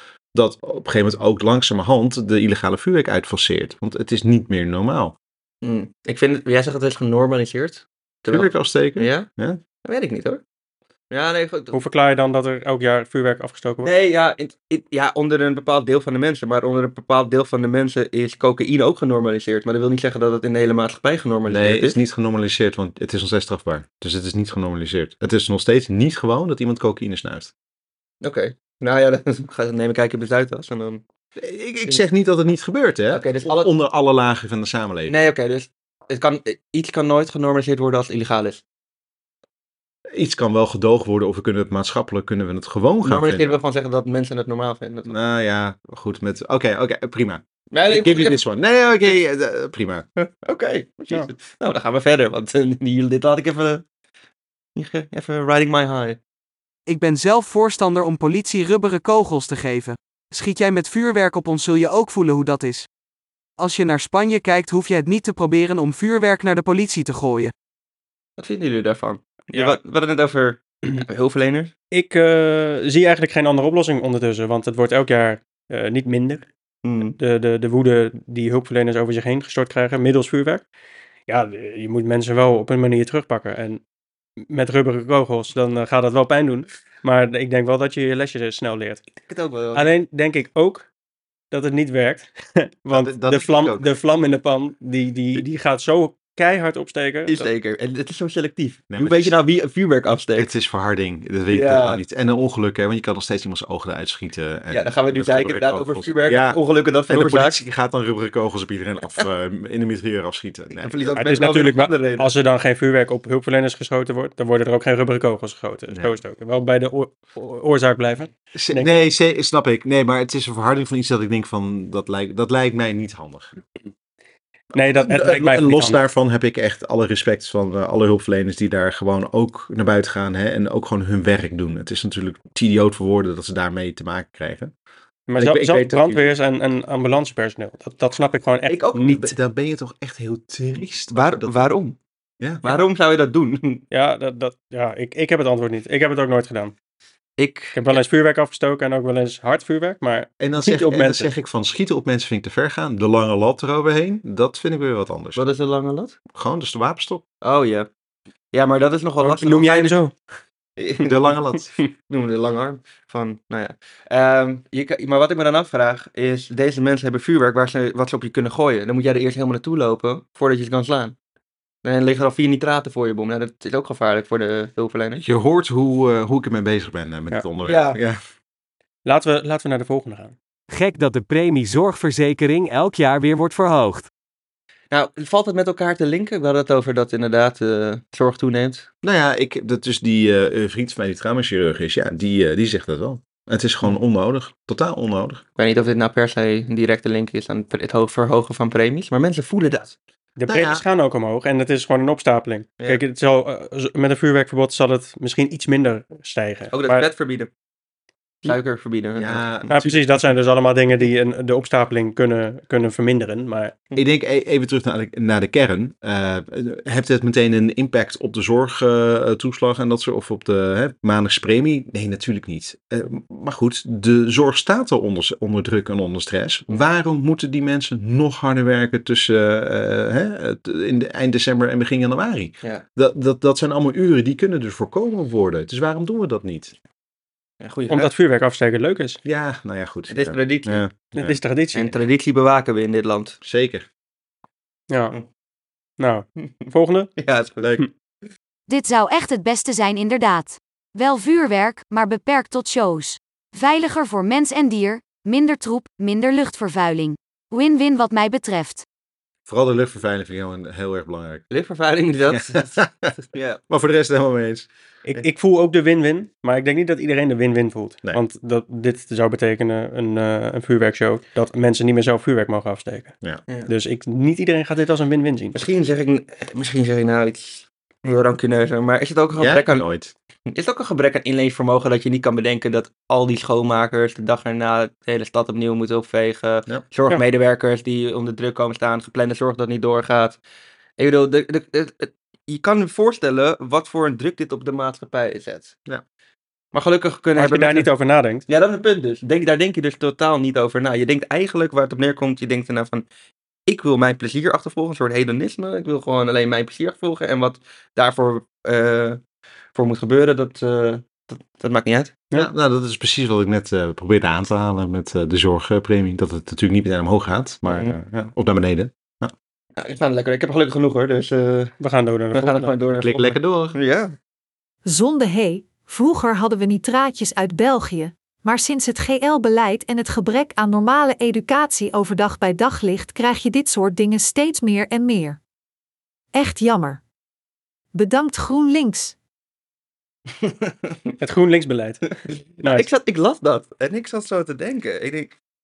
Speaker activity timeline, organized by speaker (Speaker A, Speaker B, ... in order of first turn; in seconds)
Speaker A: 0.3-5.2, 8.3-9.6, 21.5-27.5, 31.4-35.1, 40.1-43.5, 45.1-50.0, 92.9-93.9, 98.9-99.4, 100.4-111.0, 115.9-116.2, 118.5-123.6, 125.0-134.7, 135.4-136.2, 139.0-141.7, 142.4-142.8, 150.4-155.4, 156.3-157.2, 161.0-161.8, 175.2-178.2, 189.0-195.4, 200.5-200.8, 209.2-210.3, 214.0-236.8, 239.2-241.4, 243.4-243.9, 247.6-247.8, 259.5-261.4, 262.3-263.1, 263.7-264.7, 279.4-280.1, 312.3-319.3, 323.0-323.8
Speaker B: 5.6-9.3, 9.8-10.4, 11.1-11.8, 13.8-22.0, 28.2-31.0, 33.1-33.7, 35.1-38.6, 43.0-45.1, 47.7-48.4, 50.2-53.8, 54.8-56.2, 68.4-71.7, 76.8-77.2, 89.3-89.9, 97.3-100.5, 101.5-102.0, 104.7-107.6, 110.8-112.3, 138.7-139.3, 141.1-142.0, 142.6-143.8, 147.4-148.0, 155.3-156.2, 157.4-157.9, 158.5-160.0, 160.8-161.1, 162.0-171.2, 171.8-175.2, 177.6-178.0, 184.9-188.9, 195.6-199.9, 206.7-207.5, 208.4-209.7, 237.6-238.1, 240.1-240.8, 241.7-243.4, 246.4-247.8, 261.5-263.6, 275.5-279.9, 280.5-290.4, 291.0-295.8, 296.7-297.9, 298.5-303.1, 303.7-309.2, 309.7-312.2, 317.7-317.9, 319.8-321.8, 322.3-324.1, 340.4-341.0, 342.3-345.3
Speaker C: 11.7-13.9, 71.9-76.5, 77.2-80.6, 81.3-83.8, 84.5-89.0, 89.8-90.9, 91.5-97.5, 111.2-118.9, 124.7-126.0, 135.3-139.3, 143.9-146.7, 147.8-151.3, 159.2-160.1, 179.1-180.3, 200.4-207.1, 209.7-213.8, 237.9-239.2, 241.1-241.9, 244.9-245.2, 246.0-247.1, 265.1-273.1, 273.7-275.6, 297.4-298.4, 321.8-322.7, 341.2-342.9
Speaker D: 56.9-62.9, 63.6-67.5
Speaker E: 180.7-184.1
Speaker F: 248.7-258.8
Speaker G: 324.9-335.4, 336.4-337.0, 337.9-339.2